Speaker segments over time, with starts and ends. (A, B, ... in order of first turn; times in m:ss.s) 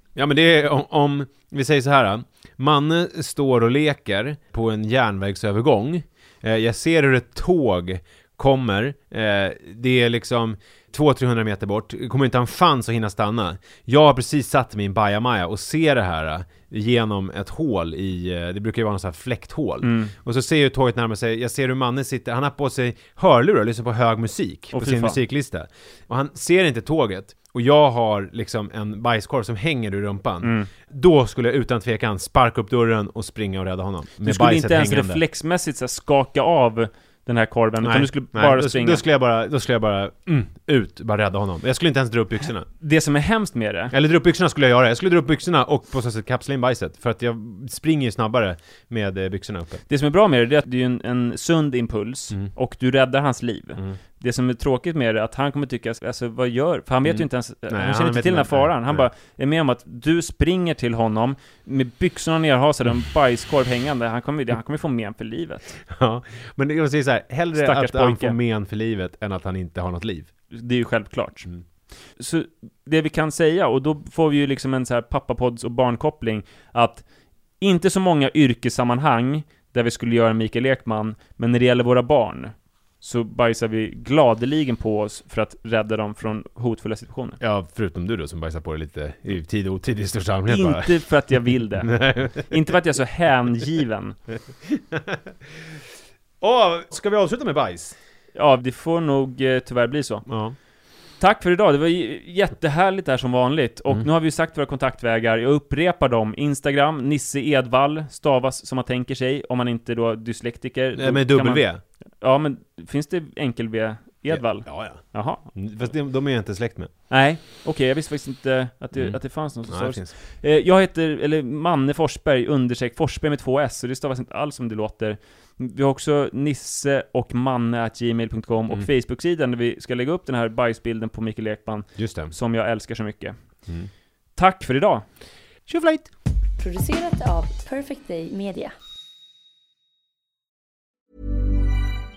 0:00.1-0:35.2 A
0:19.8-0:20.1 B
0:24.7-0:25.2 B
0:30.4-0:30.7 B
0:34.2-0:39.0 B
0:37.8-0:42.7 A
0:42.8-0:43.9 B
0:43.9-0:49.8 A
0:49.9-1:05.8 B
0:57.0-0:59.1 A
1:05.9-1:10.3 A
1:07.5-1:08.4 B
1:10.5-1:11.5 B
1:12.2-1:17.0 B
1:17.6-1:27.4 B
1:27.4-1:31.0 A
1:30.5-1:34.2 B
1:31.8-1:32.7 A
1:34.7-1:35.2 A
1:36.4-1:38.0 A
1:38.3-1:40.3 B
1:40.3-1:40.6 A
1:41.2-1:51.7 B
1:51.0-1:51.8 A
1:52.2-1:55.5 B
1:54.3-1:56.9 A
1:57.1-2:13.4 B
1:58.9-2:00.1 A
2:12.0-2:12.3 A
2:14.4-2:15.1 B
2:15.7-2:16.1 A
2:16.6-2:18.7 C